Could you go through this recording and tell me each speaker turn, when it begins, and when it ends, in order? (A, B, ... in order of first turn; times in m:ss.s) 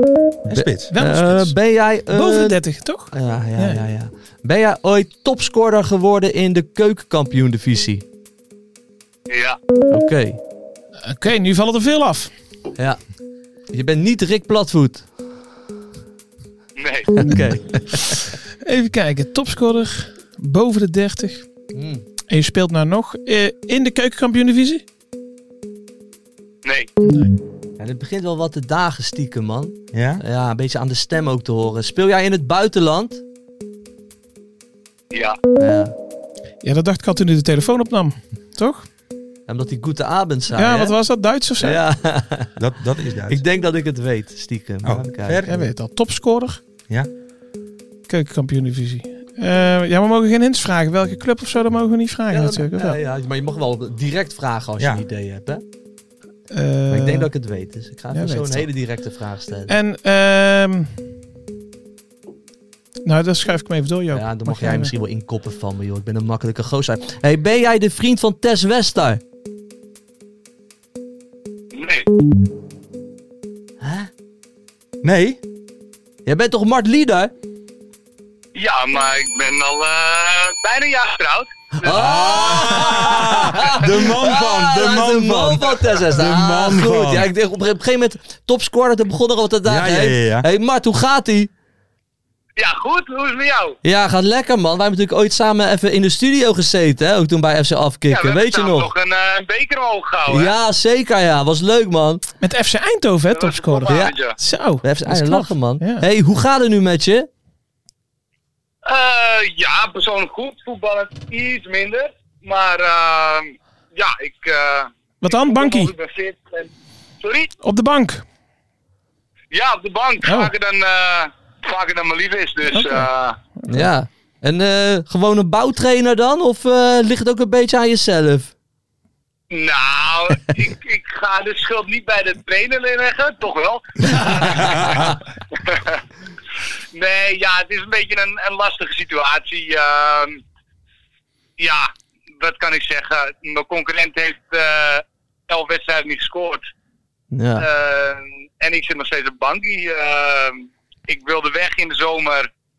0:00.5-0:00.9 A
0:00.5-0:02.6 B
0:00.9-0:01.6 C
0:02.1-0:03.8 C
0:03.1-0:08.0 B
0:09.3-0:09.6 D
0:09.9-0:10.4 B
0:11.0-0:12.3 C
0:13.7-0:15.1 B
0:16.8-0:17.1 D
0:17.1-0:18.2 B
0:18.6-0:21.5 C
0:21.7-0:22.0 B
0:22.3-0:24.8 C
0:26.6-0:26.9 D
0:27.0-0:27.4 C
0:27.8-0:33.2 B
0:29.9-0:30.2 A
0:35.1-0:35.4 D
0:35.6-0:35.9 B
0:36.6-0:38.9 C
0:39.5-0:41.0 B
0:40.5-0:41.8 C
0:41.6-0:42.5 B
0:42.6-0:43.4 A
0:43.3-0:45.5 B
0:44.8-0:45.6 A
0:45.5-0:46.6 C
0:48.1-0:53.0 C
0:52.3-0:55.6 B
0:56.5-0:57.3 C
0:56.9-0:59.8 B
0:58.1-0:58.7 C
0:59.7-1:00.9 C
1:03.0-1:04.9 C
1:04.1-1:09.2 B
1:11.7-1:12.1 D
1:13.8-1:14.1 B
1:15.0-1:15.4 A
1:16.3-1:17.3 B
1:18.6-1:22.5 D
1:21.8-1:31.5 B
1:21.9-1:27.3 A
1:29.6-1:30.5 A
1:32.6-1:33.8 D
1:33.8-1:38.9 B
1:38.1-1:40.5 D
1:40.3-1:42.2 B
1:42.4-1:46.0 C
1:43.3-1:44.4 D
1:43.9-1:44.2 B
1:44.8-1:47.3 B
1:48.9-1:57.5 D
1:55.2-1:55.9 C
1:57.6-1:58.2 C
1:59.5-2:03.4 D
2:00.2-2:00.5 C
2:02.7-2:03.1 C
2:03.6-2:03.9 C
2:03.7-2:08.5 B
2:09.5-2:16.0 D
2:16.9-2:20.4 D
2:21.6-2:26.6 D
2:27.3-2:27.6 B
2:27.6-2:32.5 D